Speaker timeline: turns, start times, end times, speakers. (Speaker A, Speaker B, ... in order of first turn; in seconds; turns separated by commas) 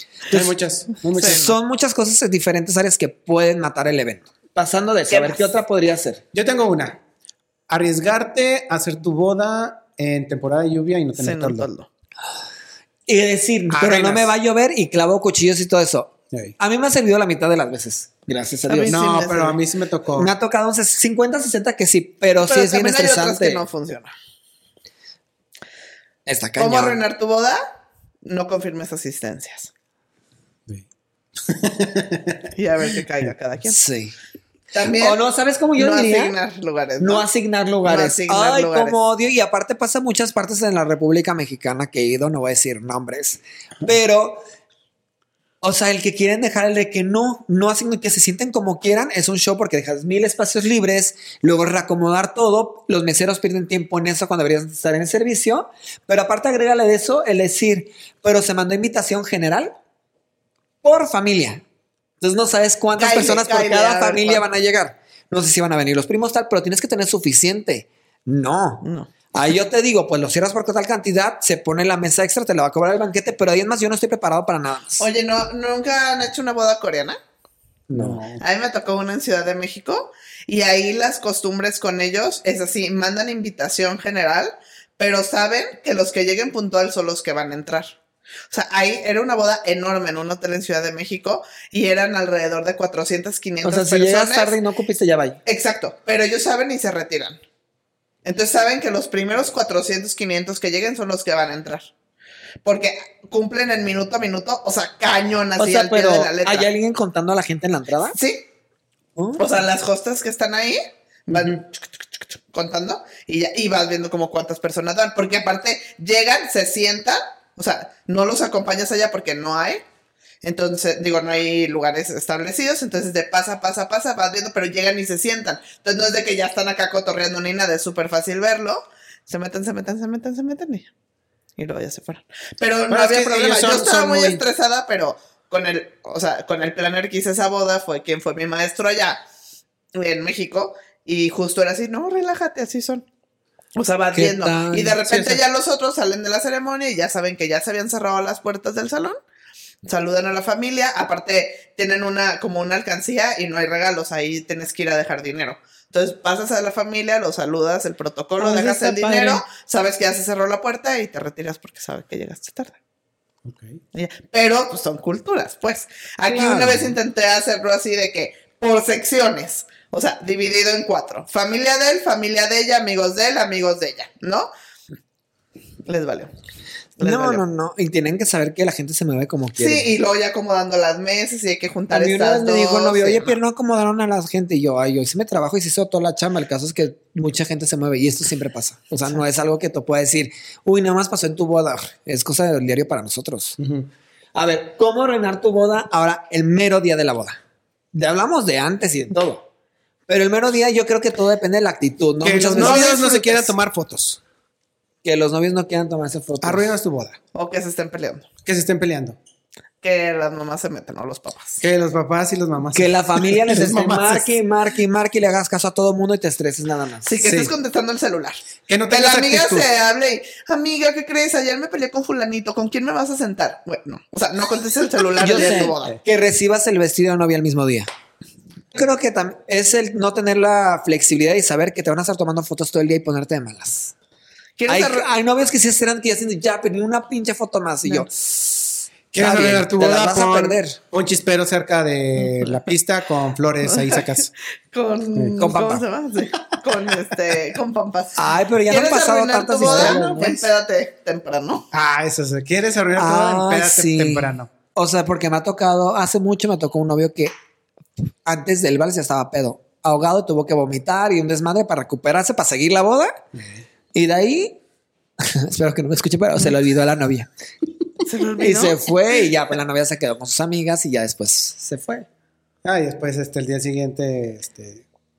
Speaker A: 0.3-1.4, Speaker B: 1.1-1.6, Speaker C: 1.1-6.2, Speaker B: 5.1-5.5, Speaker A: 6.3-7.0, Speaker A: 7.7-11.7, Speaker B: 11.2-11.9, Speaker C: 13.1-19.0, Speaker A: 13.7-14.3, Speaker B: 18.7-19.6, Speaker A: 18.9-20.3, Speaker C: 20.1-23.6, Speaker B: 22.4-24.1, Speaker C: 26.2-27.0, Speaker B: 26.6-27.6, Speaker B: 28.2-29.7, Speaker A: 31.4-32.5, Speaker B: 32.5-33.8, Speaker C: 33.7-34.1, Speaker B: 34.7-35.2, Speaker C: 34.9-36.3, Speaker B: 35.8-37.3, Speaker C: 37.0-44.4, Speaker B: 37.8-39.0, Speaker C: 45.6-59.7, Speaker C: 60.8-61.6, Speaker C: 62.2-75.0, Speaker B: 63.0-64.4, Speaker B: 68.8-69.1, Speaker B: 75.0-77.2, Speaker C: 77.9-78.2, Speaker A: 77.9-78.4, Speaker B: 78.4-87.9, Speaker B: 88.5-94.5, Speaker C: 93.6-95.4, Speaker B: 95.5-97.4, Speaker B: 98.2-101.9, Speaker B: 102.6-106.7, Speaker C: 105.6-108.1, Speaker B: 108.1-108.5, Speaker C: 109.2-109.4, Speaker B: 109.3-119.8, Speaker B: 120.4-130.9, Speaker B: 131.6-139.2, Speaker A: 132.9-134.4, Speaker B: 139.9-143.1, Speaker B: 143.8-149.2, Speaker C: 144.1-145.3, Speaker B: 149.8-162.7, Speaker C: 158.4-159.4, Speaker A: 163.4-163.8, Speaker B: 163.9-174.5, Speaker C: 166.3-166.9, Speaker B: 175.8-176.3, Speaker B: 177.0-177.4, Speaker C: 177.0-179.9, Speaker B: 179.6-183.4, Speaker C: 181.9-193.6, Speaker A: 193.6-193.9, Speaker C: 194.3-197.4, Speaker C: 197.9-199.4, Speaker C: 200.1-203.5, Speaker A: 202.2-204.2, Speaker B: 202.6-203.0, Speaker C: 205.0-206.7, Speaker A: 206.4-207.2, Speaker B: 207.3-208.3, Speaker A: 208.4-209.2, Speaker B: 209.8-211.6, Speaker A: 211.6-214.3, Speaker C: 212.7-217.2, Speaker B: 217.1-225.9, Speaker A: 217.2-217.5, Speaker A: 218.7-219.7, Speaker C: 225.2-227.9, Speaker A: 225.4-225.9, Speaker C: 228.7-233.9, Speaker B: 234.6-235.1, Speaker C: 234.7-240.8, Speaker A: 239.1-244.3, Speaker B: 243.7-244.0, Speaker B: 244.7-251.7, Speaker C: 245.4-245.8, Speaker C: 248.2-250.4, Speaker A: 249.6-250.3, Speaker A: 251.7-254.5, Speaker C: 252.9-257.3, Speaker C: 258.2-263.2, Speaker A: 263.3-263.6, Speaker C: 263.9-264.6, Speaker C: 265.2-267.3, Speaker B: 268.0-268.8, Speaker C: 268.4-272.1, Speaker A: 272.6-274.8